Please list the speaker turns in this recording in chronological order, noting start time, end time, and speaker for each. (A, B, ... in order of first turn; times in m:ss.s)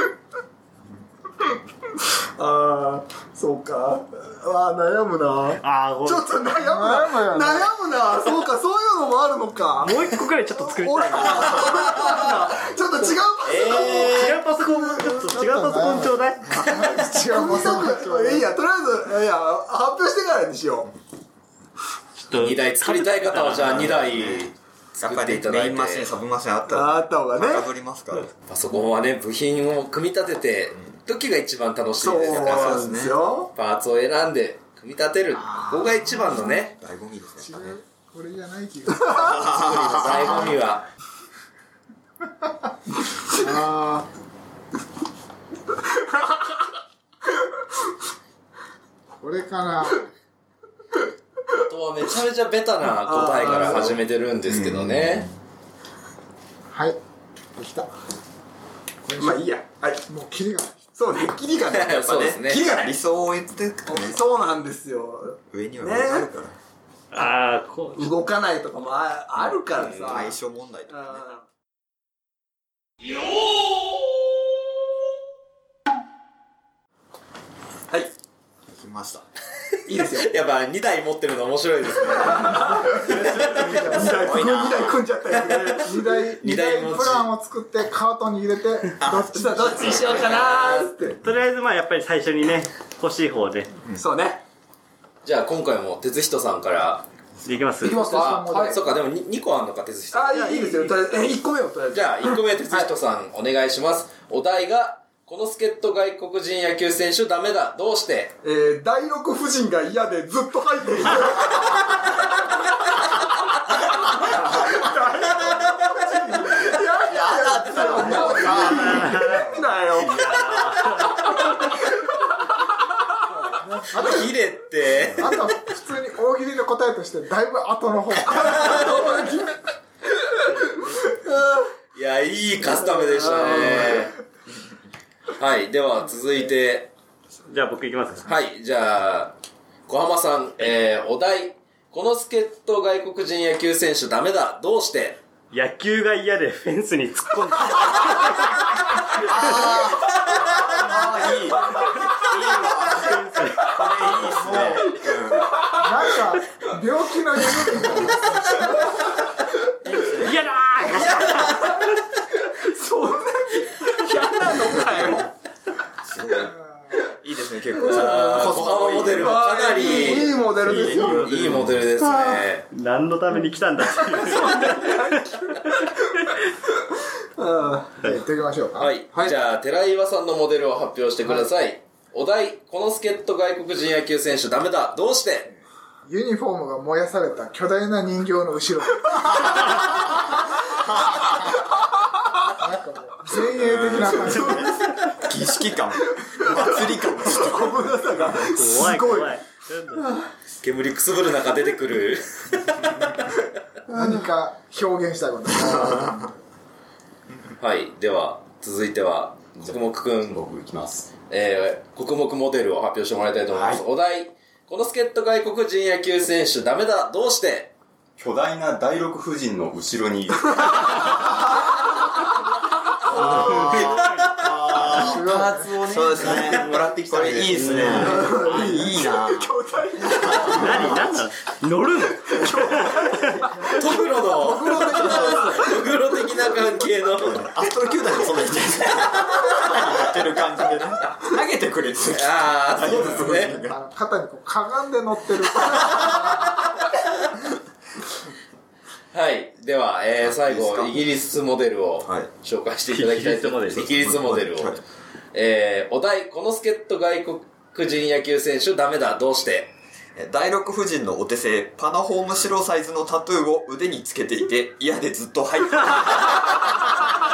0:02.4-0:15.4 A
0:05.6-0:06.3 B
0:06.5-0:07.8 C
0:09.8-0:11.7 B
0:13.0-0:14.4 D
0:13.8-0:16.5 B
0:15.3-0:18.5 C
0:16.4-0:20.9 A
0:22.2-0:24.0 B
0:22.3-0:26.1 D
0:23.6-0:24.5 E
0:25.0-0:28.3 E
0:26.7-0:27.7 A
0:28.5-0:32.8 D
0:32.0-0:33.5 A
0:32.3-0:33.2 E
0:33.6-0:36.8 D
0:36.8-0:37.8 E
0:37.4-0:40.5 C
0:39.3-0:40.9 D
0:39.7-0:40.0 E
0:43.3-0:44.1 C
0:49.2-0:50.1 C
0:51.6-0:55.3 D
0:52.8-0:54.0 A
0:54.4-0:55.3 E
0:56.7-0:57.0 C
0:57.6-0:57.9 C
0:59.0-0:59.5 C
0:59.2-1:00.1 A
1:00.0-1:01.0 C
1:00.9-1:02.9 A
1:01.6-1:02.7 D
1:02.4-1:04.2 E
1:03.9-1:06.3 A
1:05.5-1:06.6 E
1:07.1-1:08.2 B
1:07.9-1:10.4 A
1:09.7-1:10.3 D
1:10.0-1:11.2 E
1:10.9-1:11.4 A
1:18.7-1:19.2 E
1:19.9-1:20.3 A
1:19.9-1:23.8 D
1:22.3-1:25.9 A
1:22.6-1:23.0 C
1:23.6-1:24.4 C
1:24.1-1:25.0 E
1:25.8-1:30.0 C
1:26.2-1:27.3 D
1:29.0-1:30.6 E
1:29.4-1:31.2 A
1:30.0-1:30.9 D
1:31.2-1:33.8 B
1:33.9-1:34.4 A
1:35.2-1:37.1 D
1:37.4-1:38.5 B
1:37.8-1:38.9 C
1:37.9-1:40.8 D
1:40.1-1:42.4 A
1:40.6-1:41.0 B
1:41.9-1:48.4 D
1:48.4-1:51.6 A
1:54.2-2:00.6 A
1:55.2-1:56.6 D
1:57.2-1:59.8 C
1:57.5-1:59.0 E
1:58.0-1:58.3 D
1:58.6-2:01.6 B
2:03.3-2:04.3 C
2:03.9-2:05.5 D
2:05.2-2:09.0 C
2:08.3-2:09.6 A
2:08.4-2:09.1 D
2:10.1-2:11.7 A
2:10.4-2:11.2 B
2:11.9-2:14.2 D
2:13.0-2:14.0 A
2:15.3-2:16.9 D
2:17.5-2:18.3 B
2:18.2-2:19.4 D
2:19.9-2:25.2 D
2:25.5-2:29.9 B
2:29.2-2:31.8 E
2:30.3-2:30.9 D
2:30.6-2:35.2 B
2:34.2-2:35.0 C
2:34.7-2:36.7 A
2:35.0-2:35.4 E
2:35.8-2:39.0 C
2:39.8-2:41.7 B
2:40.9-2:42.0 D
2:42.3-2:45.3 A
2:46.0-2:48.6 E
2:47.8-2:51.7 A
2:47.8-2:50.3 D
2:50.2-2:55.4 B
2:51.3-2:52.7 D
2:54.0-2:55.8 A
2:57.4-2:58.1 A
2:58.0-2:59.0 C
2:58.8-3:05.5 D
2:59.0-2:59.4 A
3:06.1-3:10.1 C
3:12.6-3:14.7 C
3:13.6-3:18.0 E
3:13.9-3:14.7 A
3:16.4-3:19.4 A
3:18.3-3:20.1 B
3:20.6-3:23.0 D
3:23.9-3:26.4 C
3:23.9-3:24.2 A
3:27.6-3:30.4 D
3:30.2-3:31.1 F
3:31.3-3:37.7 D
3:33.5-3:33.8 F
3:38.2-3:41.1 F
3:43.1-3:49.5 E
3:43.1-3:45.4 D
3:43.2-3:44.0 B
3:44.9-3:48.1 F
3:44.9-3:45.9 C
3:46.2-3:47.4 D
3:47.5-3:48.8 B
3:48.1-3:51.0 A
3:50.0-3:51.2 E
3:50.5-3:53.5 B
3:52.1-3:56.2 A
3:53.6-3:55.7 C
3:53.7-4:00.2 D
3:57.2-4:03.8 E
4:02.1-4:03.6 D
4:03.3-4:06.6 C
4:05.8-4:06.9 D
4:09.1-4:14.8 D
4:10.2-4:11.1 E
4:12.0-4:12.3 E
4:12.9-4:14.0 B
4:13.8-4:14.8 E
4:15.3-4:19.7 D
4:20.2-4:26.6 E